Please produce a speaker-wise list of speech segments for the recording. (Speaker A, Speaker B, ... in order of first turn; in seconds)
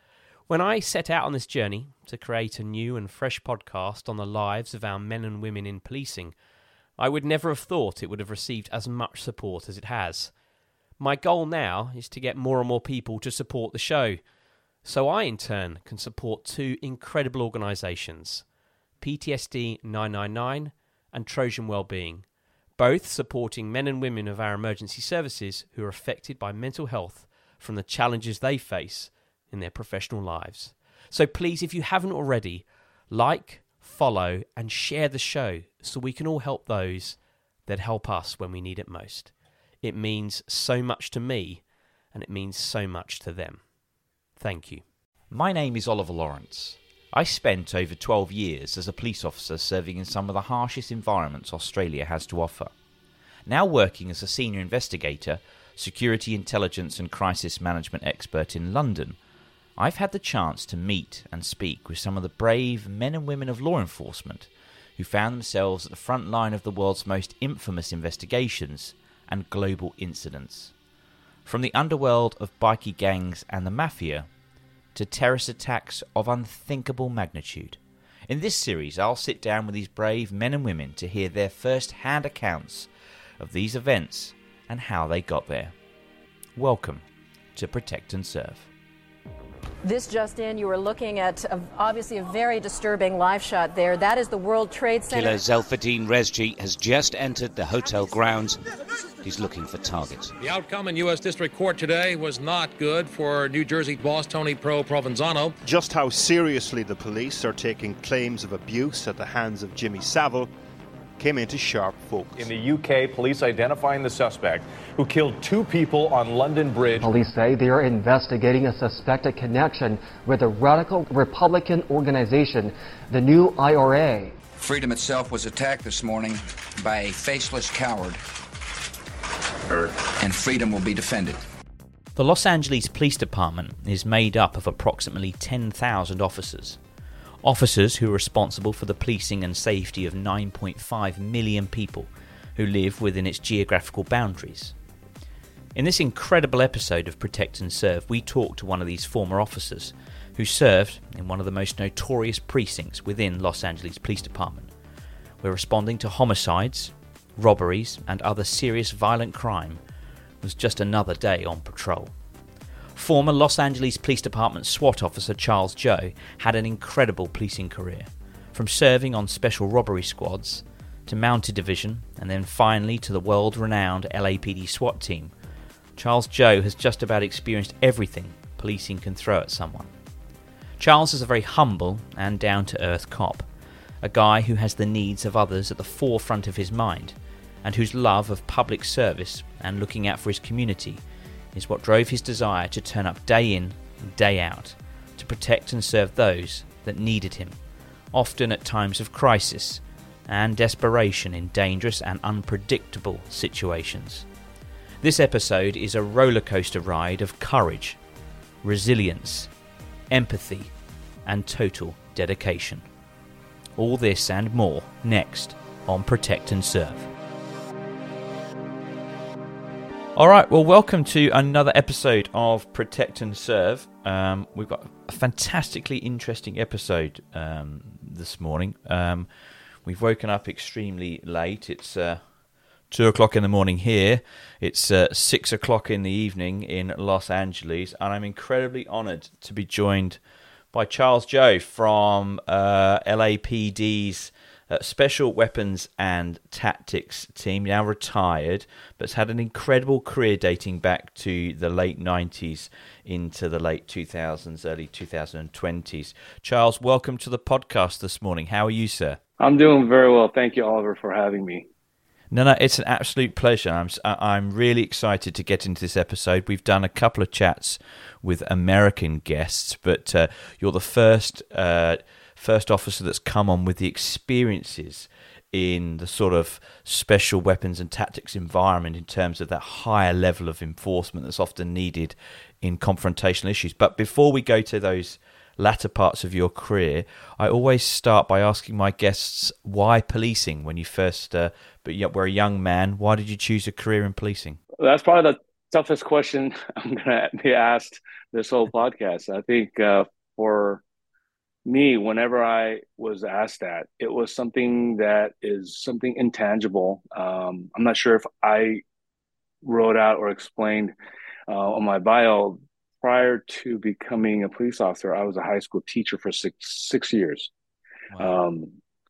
Speaker A: 0.5-6.4, 7.0-10.4, 11.0-43.8, 44.4-44.9
Speaker B: 45.3-52.7, 53.5-59.2, 59.8-70.7, 71.5-74.3, 75.0-82.9, 83.4-85.7, 86.6-87.0, 87.5-88.7, 132.2-136.8, 137.4-144.8, 145.8-154.7, 155.4-159.8, 160.4-162.1, 162.9-175.3, 176.0-179.9, 180.8-183.5, 184.0-191.0, 191.5-197.6, 198.1-204.3, 205.0-208.0, 208.6-209.5, 210.1-210.7, 211.2-212.8, 213.8-217.1, 220.2-229.3, 229.8-232.2, 232.9-240.2, 240.7-259.2, 262.3-294.6, 318.1-318.4
Speaker C: 89.8-95.4
Speaker D: 95.1-98.6, 99.2-100.3
Speaker E: 100.4-105.6
Speaker F: 105.6-110.5, 111.2-112.5
Speaker G: 112.4-117.1
Speaker H: 117.0-124.4
Speaker I: 124.6-128.2, 129.7-131.4
Speaker J: 259.4-261.7, 294.8-300.8, 301.7-308.8, 309.6-310.9, 311.5-317.5, 318.2-318.7